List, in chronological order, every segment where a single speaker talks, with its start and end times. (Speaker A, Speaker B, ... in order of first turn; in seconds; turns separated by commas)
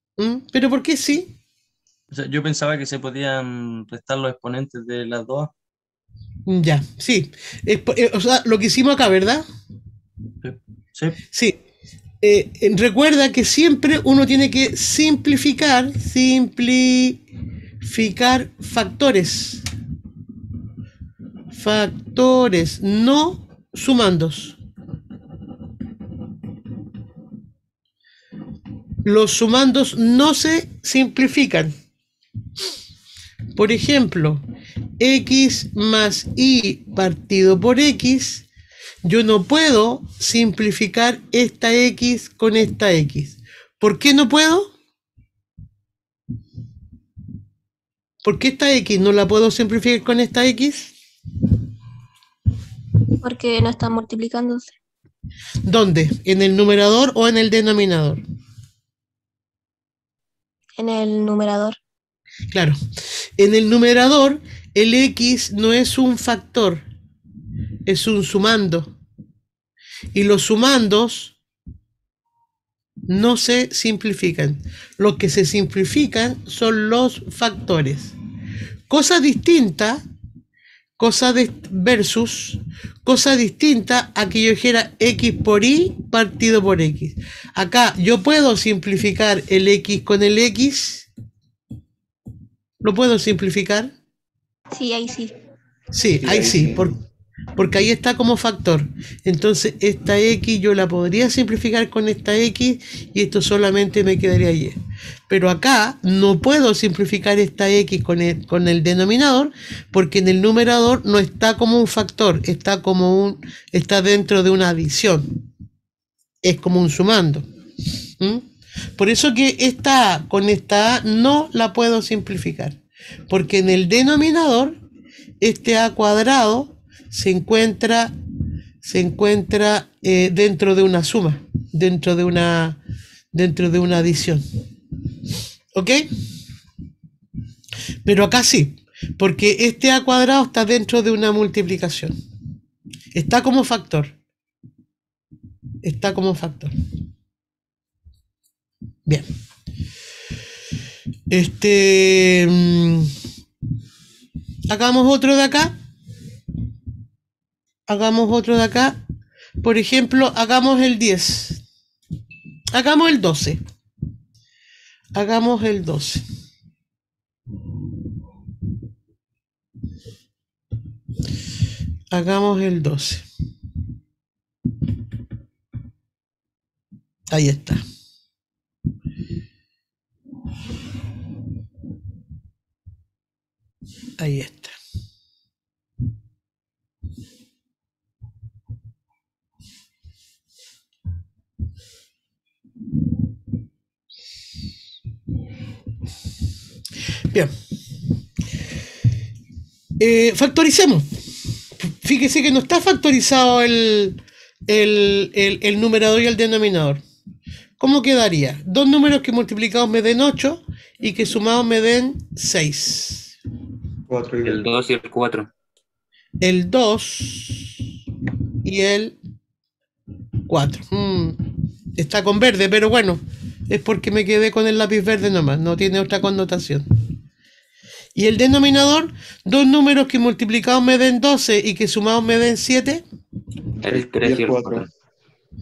Speaker A: 0.2-1.3, Speaker B: 2.1-5.5, Speaker A: 6.5-9.4, Speaker B: 10.4-11.2, Speaker A: 12.2-17.2, Speaker A: 17.8-19.6, Speaker A: 21.5-24.6, Speaker A: 29.0-31.7, Speaker A: 33.5-34.4, Speaker A: 35.0-38.5, Speaker A: 39.0-44.7, Speaker A: 48.2-50.9, Speaker C: 53.2-54.7, Speaker A: 55.7-58.2, Speaker C: 60.8-61.8, Speaker A: 63.4-66.8, Speaker A: 67.9-68.9, Speaker A: 70.1-71.3, Speaker A: 73.1-78.1, Speaker A: 78.9-80.0, Speaker A: 81.0-91.1, Speaker A: 92.8-93.9, Speaker C: 94.7-95.3, Speaker A: 96.0-97.0, Speaker D: 96.2-96.9, Speaker A: 97.6-104.8, Speaker A: 105.3-115.4, Speaker A: 116.4-117.5, Speaker A: 118.2-118.5, Speaker A: 119.0-122.8, Speaker A: 123.3-124.8, Speaker A: 125.4-128.1, Speaker A: 128.8-132.8, Speaker A: 133.3-134.4, Speaker A: 135.8-136.0, Speaker A: 138.1-142.2, Speaker A: 143.1-144.1, Speaker A: 145.8-146.7, Speaker A: 151.3-153.1, Speaker A: 154.7-155.7, Speaker A: 157.9-159.0, Speaker A: 159.6-161.6, Speaker A: 162.7-163.6, Speaker A: 165.2-166.2, Speaker A: 172.1-173.3, Speaker A: 177.3-177.8, Speaker A: 184.2-184.8, Speaker A: 200.0-201.1, Speaker A: 201.8-207.0, Speaker A: 207.8-213.3, Speaker D: 214.1-214.6, Speaker E: 214.4-215.5, Speaker A: 216.4-217.7, Speaker A: 218.6-219.2, Speaker A: 220.5-221.4, Speaker A: 222.0-226.9, Speaker A: 228.2-233.0, Speaker E: 233.8-234.9, Speaker D: 233.8-234.9